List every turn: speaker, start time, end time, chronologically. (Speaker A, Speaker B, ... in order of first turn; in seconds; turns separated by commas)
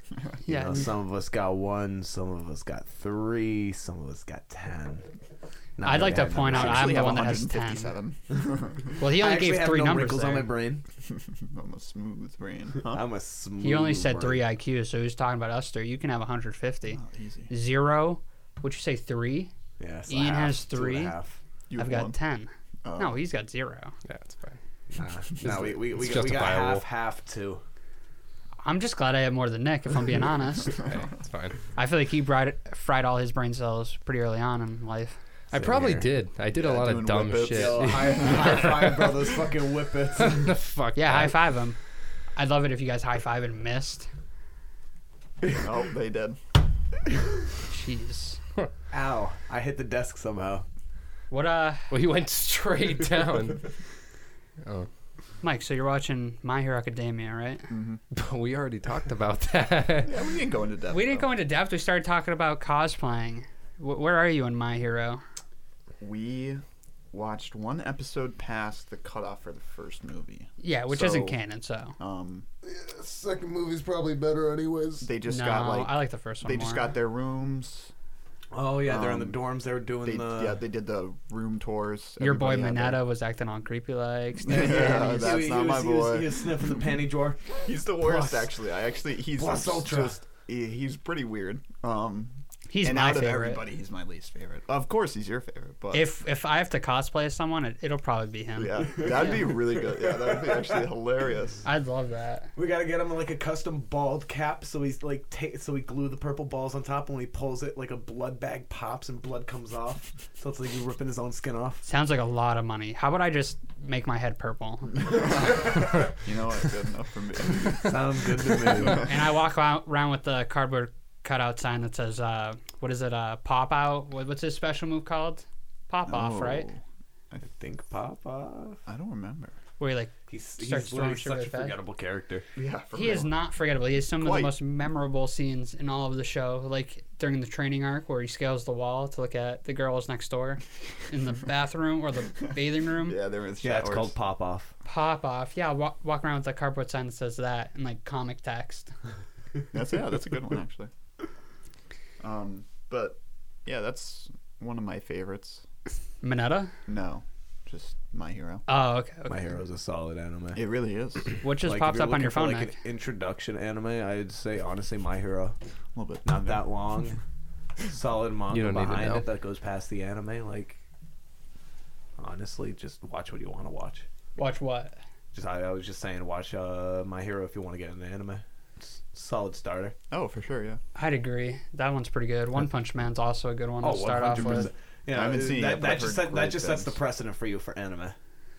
Speaker A: 0.4-0.9, Speaker B: 0.5-5.0, Speaker B: 5.8-7.1, Speaker A: 5.8-7.9, Speaker C: 6.5-8.9, Speaker A: 9.0-10.5, Speaker B: 9.0-10.8, Speaker C: 11.1-13.0, Speaker B: 12.8-14.4, Speaker A: 13.6-19.5, Speaker C: 16.9-17.5, Speaker B: 19.8-21.4, Speaker A: 20.1-21.1, Speaker C: 21.7-22.2, Speaker A: 21.8-23.9, Speaker C: 22.8-23.2, Speaker D: 24.1-24.6, Speaker B: 24.9-27.6, Speaker D: 25.4-26.8, Speaker A: 28.6-30.8, Speaker D: 30.8-31.6, Speaker A: 31.8-35.2, Speaker D: 35.5-39.1, Speaker B: 35.5-36.1, Speaker C: 36.5-39.0, Speaker B: 37.5-40.5, Speaker D: 40.2-41.4, Speaker A: 40.9-41.8, Speaker A: 42.3-44.1, Speaker C: 45.5-46.4, Speaker A: 47.7-48.4, Speaker B: 48.9-50.6, Speaker A: 51.3-51.9, Speaker D: 51.9-53.7, Speaker D: 54.6-54.9, Speaker A: 55.4-57.7, Speaker C: 57.7-58.0, Speaker D: 58.1-60.1, Speaker C: 60.0-61.3, Speaker A: 60.9-65.2, Speaker C: 66.0-71.4, Speaker A: 70.6-72.0, Speaker C: 72.0-72.5, Speaker B: 72.6-75.1, Speaker C: 75.0-77.9, Speaker A: 75.2-76.9, Speaker B: 78.5-80.6, Speaker C: 78.8-79.4, Speaker C: 80.0-83.0, Speaker A: 82.2-85.4, Speaker C: 84.4-86.8, Speaker B: 84.5-88.5, Speaker C: 87.6-96.1, Speaker B: 89.4-90.2, Speaker A: 92.7-93.6, Speaker A: 95.9-99.4, Speaker C: 98.5-101.6, Speaker B: 99.0-100.8, Speaker A: 101.6-102.5, Speaker B: 102.5-111.8, Speaker A: 111.8-115.7, Speaker C: 115.1-118.2, Speaker B: 117.8-119.1, Speaker C: 118.8-119.1, Speaker A: 119.0-126.7, Speaker C: 126.0-126.8, Speaker B: 127.6-128.8, Speaker C: 128.9-129.6, Speaker A: 129.8-131.8, Speaker B: 130.3-132.4, Speaker C: 132.6-133.3, Speaker A: 132.9-143.2, Speaker C: 134.2-134.6, Speaker C: 143.0-144.1, Speaker B: 143.6-144.7, Speaker A: 144.8-148.9, Speaker C: 149.7-150.9, Speaker C: 152.2-155.6, Speaker A: 156.2-156.7, Speaker C: 156.9-158.6, Speaker A: 158.7-159.4, Speaker B: 159.3-160.6, Speaker C: 160.6-161.4, Speaker A: 161.4-162.7, Speaker B: 161.6-165.6, Speaker C: 165.9-166.7, Speaker B: 166.2-167.2, Speaker B: 167.9-170.8, Speaker D: 168.5-169.2, Speaker B: 172.2-174.1, Speaker A: 174.4-174.9, Speaker B: 175.3-179.9, Speaker C: 180.1-180.8, Speaker A: 180.9-184.7, Speaker B: 183.8-188.2, Speaker C: 185.1-187.0